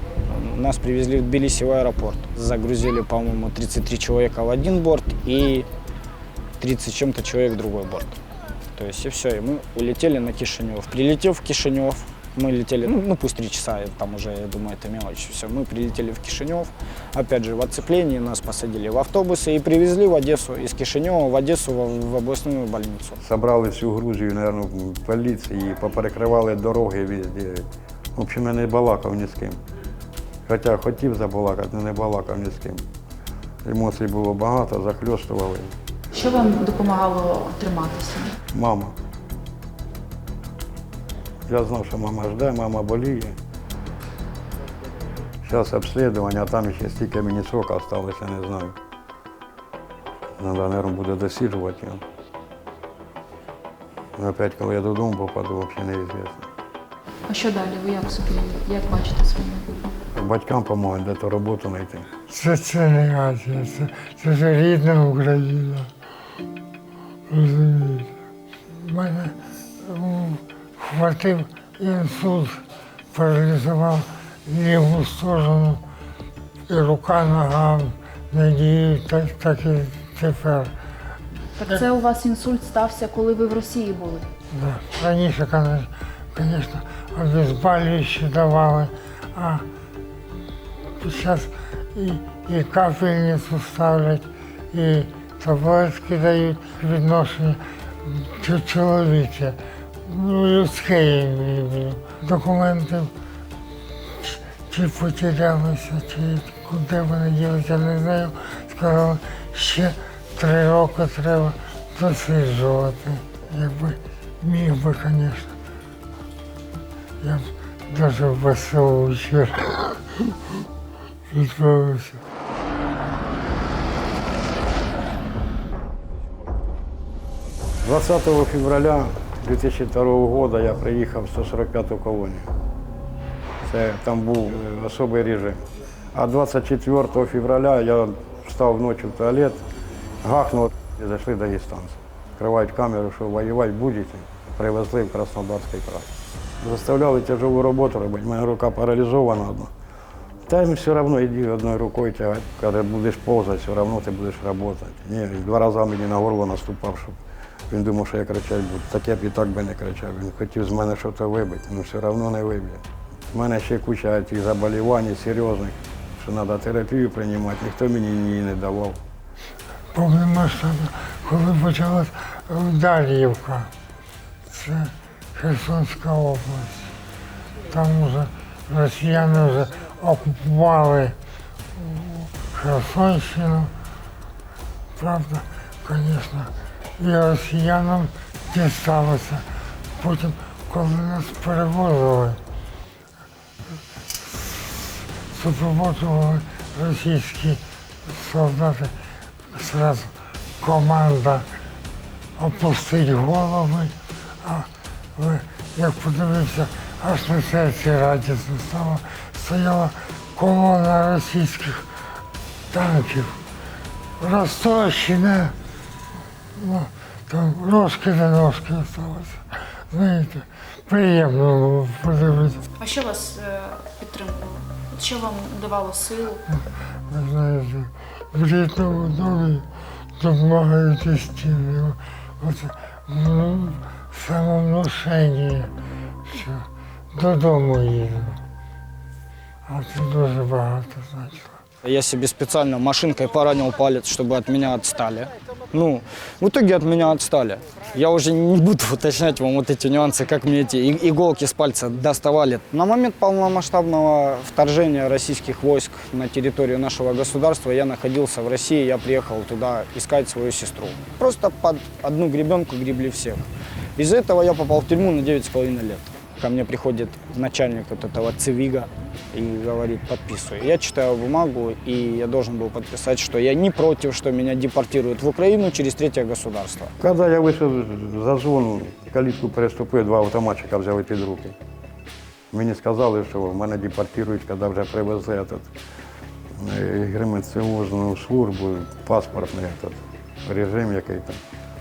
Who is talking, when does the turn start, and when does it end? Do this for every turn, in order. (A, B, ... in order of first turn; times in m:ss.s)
0:00.2-0:05.7 A
0:06.6-0:08.2 A
0:08.7-0:23.2 A
0:23.2-0:29.6 B
0:30.5-0:32.8 B
0:33.6-0:35.8 B
0:36.1-0:38.4 C
0:38.5-0:39.0 B
0:41.5-0:43.4 B
0:45.4-0:48.8 B
0:50.4-0:52.0 B
0:54.2-0:56.5 B
0:57.3-0:59.9 C
1:00.1-1:02.1 B
1:02.3-1:05.9 D
1:07.3-1:08.1 D
1:08.7-1:12.6 D
1:13.1-1:15.8 D
1:16.7-1:20.7 D
1:21.6-1:24.2 C
1:24.5-1:29.7 D
1:31.0-1:43.1 D
1:44.2-1:55.6 D
1:57.2-2:00.3 D
2:01.3-2:02.2 D
2:07.8-2:12.5 B
2:13.6-2:19.6 B
2:20.2-2:26.1 B
2:26.6-2:29.7 B
2:30.5-2:37.2 B
2:37.7-2:49.0 B
2:49.9-2:53.7 D
2:54.5-2:56.9 D
2:57.7-3:01.2 D
3:01.8-3:03.7 D
3:05.0-3:09.4 D
3:10.0-3:12.4 D
3:14.2-3:19.0 D
3:19.5-3:21.5 D
3:22.4-3:31.9 D
3:32.7-3:33.4 D
3:34.2-3:35.5 D
3:36.6-3:42.6 D
3:42.8-3:46.4 C
3:47.1-3:49.7 D
3:50.2-3:55.7 D
3:56.2-3:58.4 D
3:59.7-4:01.6 D
4:01.8-4:36.9 A
4:37.0-4:41.6 B
4:42.5-4:45.7 B
4:46.6-4:51.4 B